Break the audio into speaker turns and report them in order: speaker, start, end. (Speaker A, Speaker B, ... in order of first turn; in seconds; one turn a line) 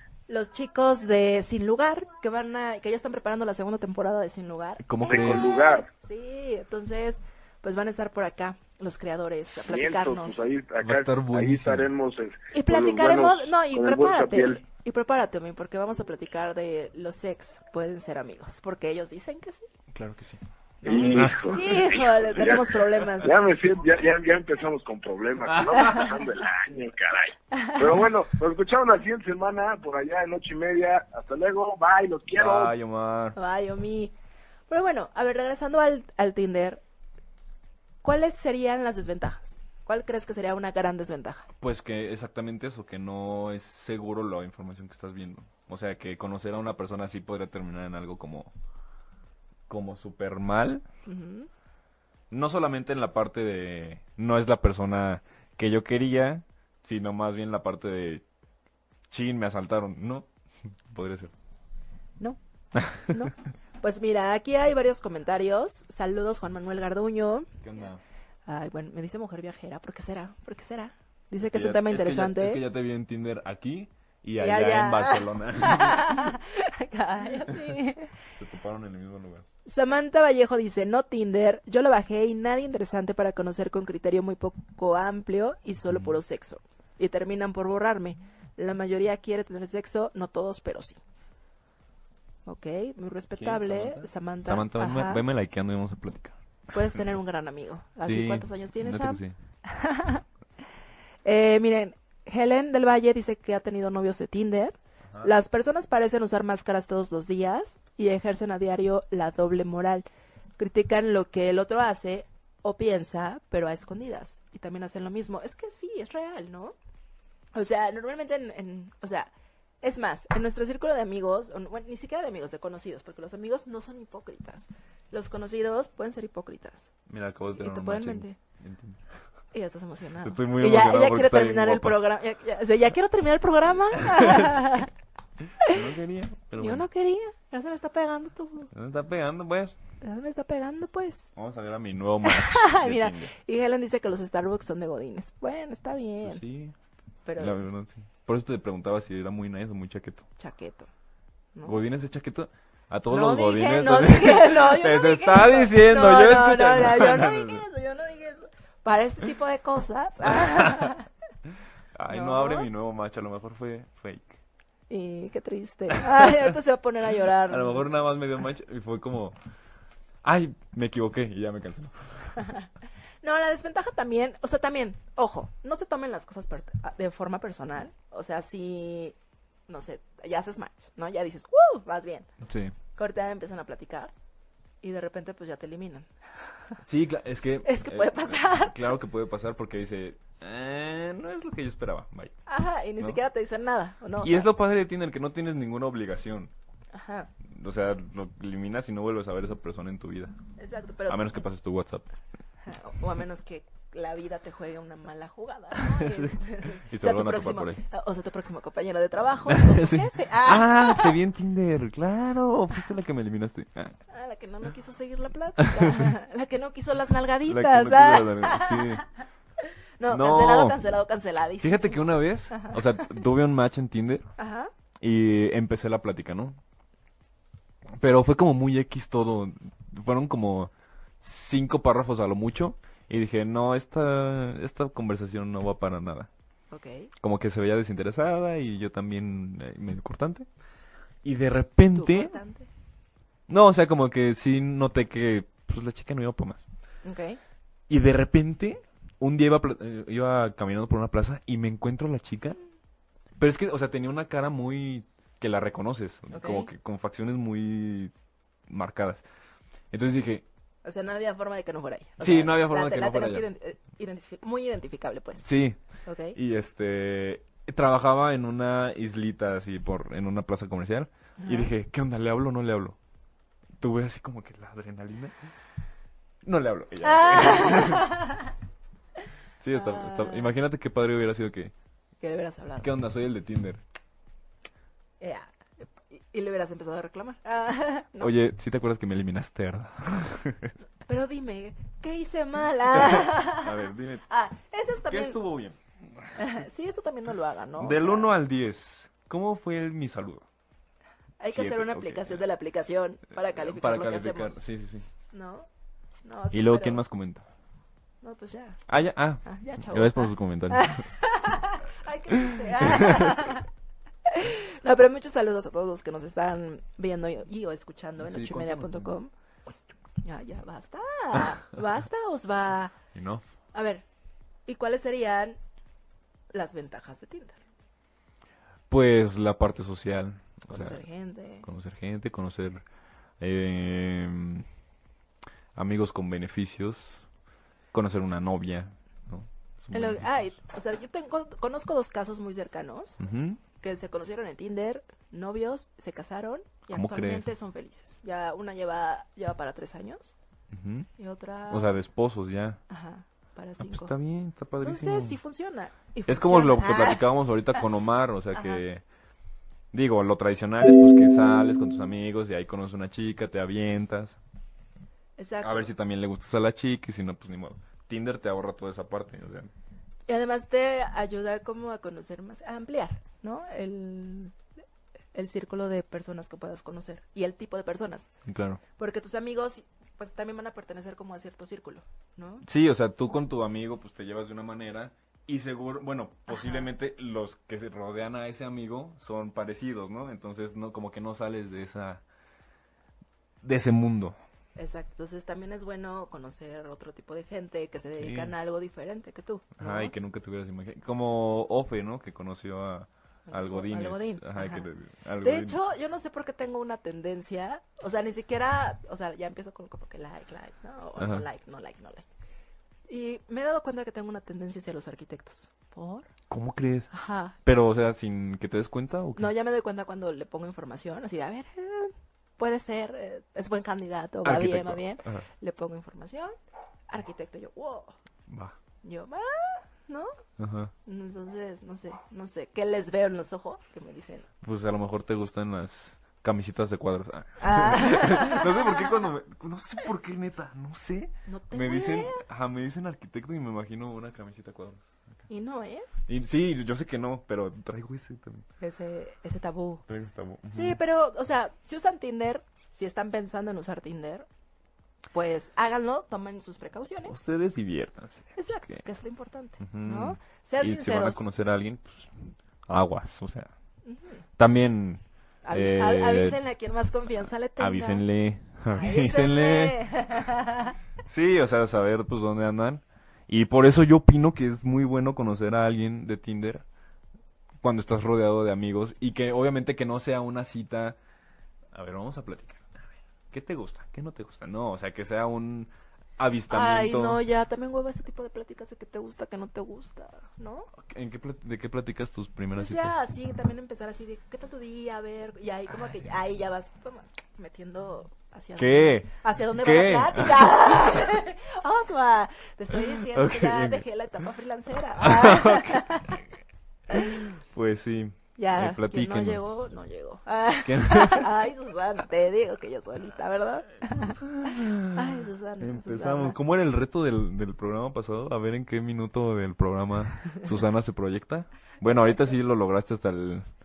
Speaker A: 0.3-10.4
Speaker B: 4.8-5.6
Speaker C: 5.1-5.9
Speaker C: 9.6-14.6
Speaker B: 10.8-11.9
Speaker A: 12.5-19.7
Speaker B: 19.9-21.9
Speaker A: 20.8-23.3
Speaker C: 20.8-32.7
Speaker B: 25.5-26.1
Speaker B: 32.3-33.4
Speaker A: 33.4-34.1
Speaker A: 34.7-36.8
Speaker A: 38.0-41.5
Speaker B: 41.6-48.5
Speaker B: 49.7-50.9
Speaker A: 51.1-51.5
Speaker B: 52.3-58.2
Speaker B: 59.1-60.2
Speaker B: 60.9-61.3
Speaker A: 62.9-67.5
Speaker B: 67.6-68.0
Speaker A: 68.5-72.6
Speaker B: 71.5-76.3
Speaker A: 74.4-78.1
Speaker B: 77.5-77.7
Speaker B: 78.3-79.4
Speaker A: 79.7-91.0
Speaker A: 92.5-95.2
Speaker B: 93.4-96.3
Speaker A: 96.7-100.2
Speaker B: 98.0-99.3
Speaker A: 101.2-110.1
Speaker A: 110.6-116.8
Speaker A: 117.5-119.3
Speaker A: 119.8-126.9
Speaker B: 127.1-129.0
Speaker A: 127.6-128.4
Speaker A: 129.5-134.9
Speaker B: 130.2-132.0
Speaker B: 134.2-134.5
Speaker B: 135.7-136.8
Speaker A: 136.6-138.7
Speaker B: 138.7-139.8
Speaker A: 140.0-141.3
Speaker B: 141.3-143.3
Speaker A: 142.2-146.4
Speaker B: 146.2-146.8
Speaker A: 147.2-147.6
Speaker B: 147.4-150.2
Speaker A: 150.4-150.9
Speaker A: 151.5-151.8
Speaker B: 151.6-157.6
Speaker A: 153.1-161.1
Speaker B: 160.3-160.9
Speaker B: 161.9-164.4
Speaker A: 162.1-162.7
Speaker A: 164.9-167.8
Speaker B: 166.1-166.3
Speaker B: 167.5-169.3
Speaker B: 170.2-172.3
Speaker A: 172.4-172.7
Speaker A: 173.2-179.2
Speaker A: 179.7-182.3
Speaker B: 182.4-182.8
Speaker A: 182.9-184.1
Speaker A: 184.8-186.1
Speaker B: 186.8-192.3
Speaker A: 187.6-188.9
Speaker A: 192.5-194.5
Speaker B: 194.2-196.5
Speaker A: 196.9-197.3
Speaker B: 197.5-200.3
Speaker A: 200.6-201.4
Speaker B: 201.1-202.1
Speaker A: 202.7-211.2
Speaker B: 205.8-207.8
Speaker B: 209.5-214.0
Speaker A: 214.1-219.1
Speaker B: 215.7-216.1
Speaker B: 217.5-219.0
Speaker A: 220.0-223.1
Speaker B: 220.1-220.9
Speaker B: 221.6-224.3
Speaker A: 224.4-224.7
Speaker B: 225.0-226.6
Speaker B: 228.0-236.3
Speaker A: 236.7-237.1
Speaker B: 237.2-240.5
Speaker B: 241.2-242.4
Speaker A: 241.9-242.7
Speaker B: 243.5-246.6
Speaker A: 247.0-247.4
Speaker B: 247.9-252.6
Speaker B: 253.4-258.1
Speaker A: 256.3-256.7
Speaker B: 258.7-259.2
Speaker B: 259.9-260.4
Speaker A: 260.8-265.5
Speaker B: 262.2-263.5
Speaker B: 265.4-265.8
Speaker A: 266.0-266.4
Speaker B: 266.4-273.0
Speaker A: 271.4-271.7
Speaker B: 273.8-275.4
Speaker B: 276.4-278.1
Speaker A: 277.0-278.5
Speaker B: 279.6-281.7
Speaker A: 279.7-280.5
Speaker A: 282.2-282.9
Speaker B: 282.8-283.8
Speaker A: 285.2-288.3
Speaker B: 288.2-290.8
Speaker A: 291.1-295.4
Speaker B: 292.9-294.2
Speaker B: 295.1-296.4
Speaker A: 296.4-298.3
Speaker B: 297.8-300.4
Speaker A: 301.4-304.6
Speaker B: 301.5-302.4
Speaker B: 303.4-305.1
Speaker A: 305.3-305.7
Speaker A: 306.2-307.0
Speaker B: 306.5-307.5
Speaker A: 308.2-308.8
Speaker B: 308.9-311.1
Speaker A: 309.4-313.7
Speaker B: 312.4-313.5
Speaker A: 314.3-319.3
Speaker B: 318.2-319.1
Speaker A: 320.2-322.9
Speaker B: 323.1-323.4
Speaker A: 323.7-324.0
Speaker A: 324.6-325.6
Speaker A: 326.5-327.6
Speaker B: 328.9-331.0
Speaker A: 330.7-331.7
Speaker B: 331.6-332.8
Speaker B: 333.4-334.6
Speaker B: 335.8-337.2
Speaker B: 337.9-340.5
Speaker A: 339.9-343.2
Speaker B: 343.2-343.6
Speaker A: 343.8-350.3
Speaker B: 346.9-347.5
Speaker B: 350.7-351.1
Speaker A: 351.2-352.0
Speaker B: 351.7-352.8
Speaker A: 352.9-354.1
Speaker B: 353.8-355.4
Speaker A: 354.8-357.2
Speaker B: 356.3-359.0
Speaker A: 358.5-358.8
Speaker B: 359.9-364.4
Speaker A: 365.4-365.9
Speaker B: 365.6-369.7
Speaker A: 370.3-374.6
Speaker A: 375.3-378.3
Speaker B: 378.5-378.8
Speaker A: 379.0-382.6
Speaker B: 382.6-392.2
Speaker A: 386.5-386.9
Speaker B: 393.6-394.4
Speaker A: 394.8-400.1
Speaker B: 398.2-398.5
Speaker B: 399.8-405.8
Speaker A: 403.5-404.9
Speaker A: 405.4-412.2
Speaker B: 411.2-411.4
Speaker A: 413.1-416.3
Speaker B: 416.5-417.1
Speaker A: 417.1-417.6
Speaker B: 417.6-419.5
Speaker A: 419.4-426.5
Speaker B: 424.4-425.4
Speaker A: 427.1-428.1
Speaker B: 428.5-428.8
Speaker A: 429.0-430.3
Speaker B: 430.6-430.9
Speaker A: 431.0-434.5
Speaker B: 434.6-445.1
Speaker A: 437.6-439.0
Speaker A: 441.5-442.4
Speaker A: 445.5-446.1
Speaker B: 446.3-448.6
Speaker A: 448.8-450.0
Speaker B: 450.1-451.0
Speaker A: 450.7-454.5
Speaker A: 455.3-457.4
Speaker B: 457.3-459.0
Speaker A: 458.6-461.5
Speaker B: 459.8-463.7
Speaker A: 464.0-464.4
Speaker B: 464.6-466.6
Speaker A: 465.6-468.2
Speaker B: 467.8-470.0
Speaker A: 468.9-471.0
Speaker B: 471.3-476.8
Speaker B: 477.8-481.2
Speaker B: 481.9-487.4
Speaker A: 486.7-490.9
Speaker B: 491.0-493.2
Speaker A: 492.8-506.4
Speaker B: 498.8-501.2
Speaker B: 503.3-504.1
Speaker B: 505.2-506.1
Speaker A: 507.1-507.4
Speaker B: 507.1-509.7
Speaker A: 508.6-516.6
Speaker B: 510.8-511.5
Speaker B: 514.3-523.7
Speaker A: 522.1-522.4